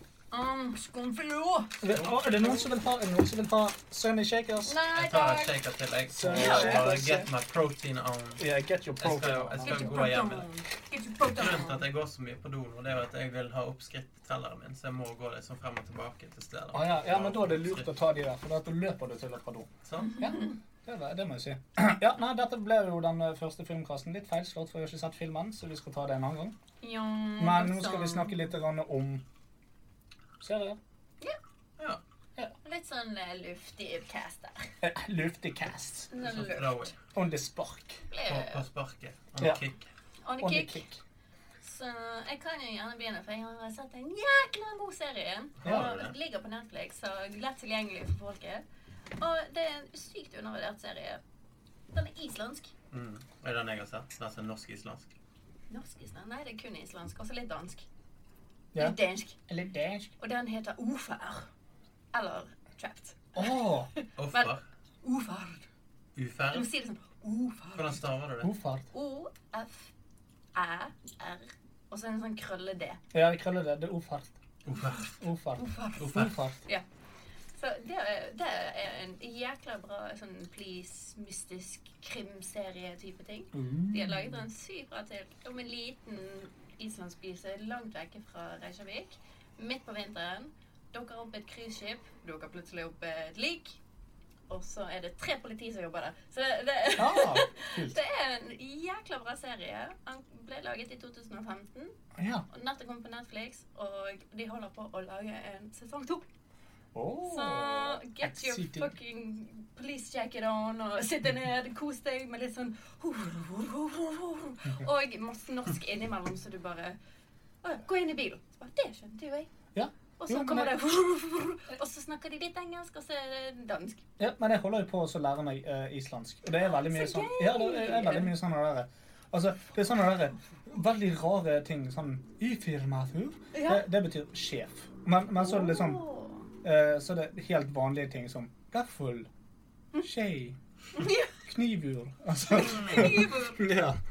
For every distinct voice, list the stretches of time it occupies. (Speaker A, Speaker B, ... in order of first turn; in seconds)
Speaker A: 0.3-1.7, 4.7-5.6, 6.2-7.2, 9.7-11.8, 20.1-20.5, 26.8-28.5, 32.6-34.7, 36.1-36.9, 38.1-38.6, 40.2-40.8, 41.6-48.6, 49.2-51.2, 51.9-52.7, 55.7-57.9, 58.8-59.4, 60.2-61.5, 62.1-65.7, 66.5-68.0, 68.9-69.9, 70.5-73.0, 74.7-76.1, 77.6-93.8, 94.5-101.9, 102.5-106.2, 107.2-117.0, 117.6-119.5, 120.2-124.0, 126.7-128.3, 133.5-133.8, 135.4-136.5, 140.9-141.3, 142.5-143.7
Speaker B: 1.8-4.8, 6.1-7.2, 8.4-10.1, 16.7-26.6, 27.4-29.2, 30.4-30.8, 34.8-36.1, 37.1-38.0, 40.4-41.0, 45.6-45.9, 58.7-60.1, 63.3-63.9, 68.4-68.9, 73.1-74.4, 75.2-76.6, 83.5-84.4, 97.0-98.0, 102.2-102.5, 106.9-108.9, 119.7-120.8, 124.2-136.0, 136.6-139.3, 140.0-140.6, 141.3-144.0
Speaker C: 1.9-2.6, 4.9-8.5, 9.0-10.5, 11.3-17.9, 19.8-20.2, 36.2-37.0, 38.2-39.9, 45.6-46.1, 52.9-55.1, 64.2-64.6, 66.2-66.7, 67.7-68.5, 74.7-75.2, 76.0-76.3